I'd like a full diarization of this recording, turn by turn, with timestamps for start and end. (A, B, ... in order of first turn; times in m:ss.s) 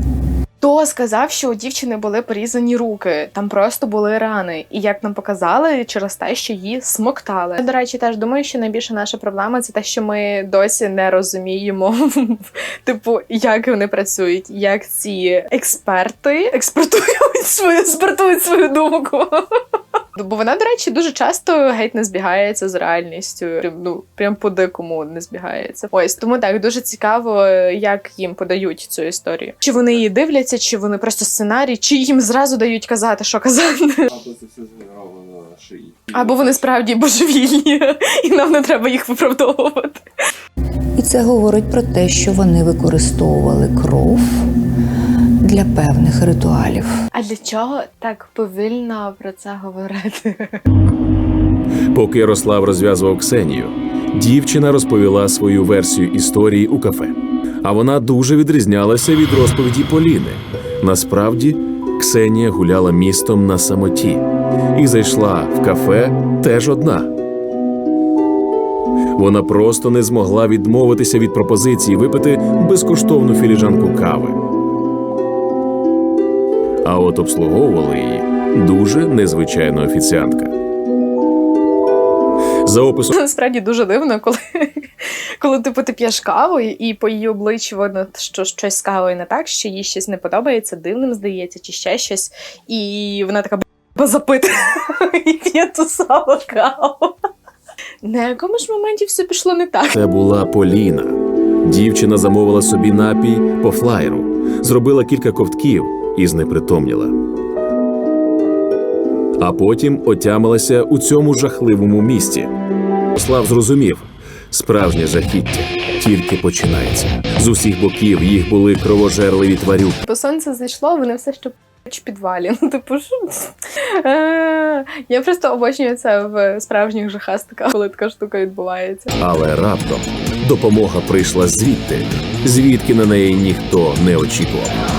0:00.6-0:19.4 A
0:20.2-0:34.1 A
0:29.7-0:30.0 B
0:34.1-0:36.7 B
0:36.1-0:40.0 A
0:41.0-0:44.5 C
0:45.4-0:46.9 C
0:47.1-0:50.6 A
0:51.9-1:07.1 D
1:09.2-1:14.4 D
1:16.8-1:20.5 D
1:22.6-1:23.2 D
1:23.1-1:37.2 A
1:38.0-1:40.0 A
1:39.9-1:47.2 D
1:49.4-1:52.5 D
1:53.1-2:00.0 D
2:00.0-2:09.1 A
2:09.2-2:14.8 D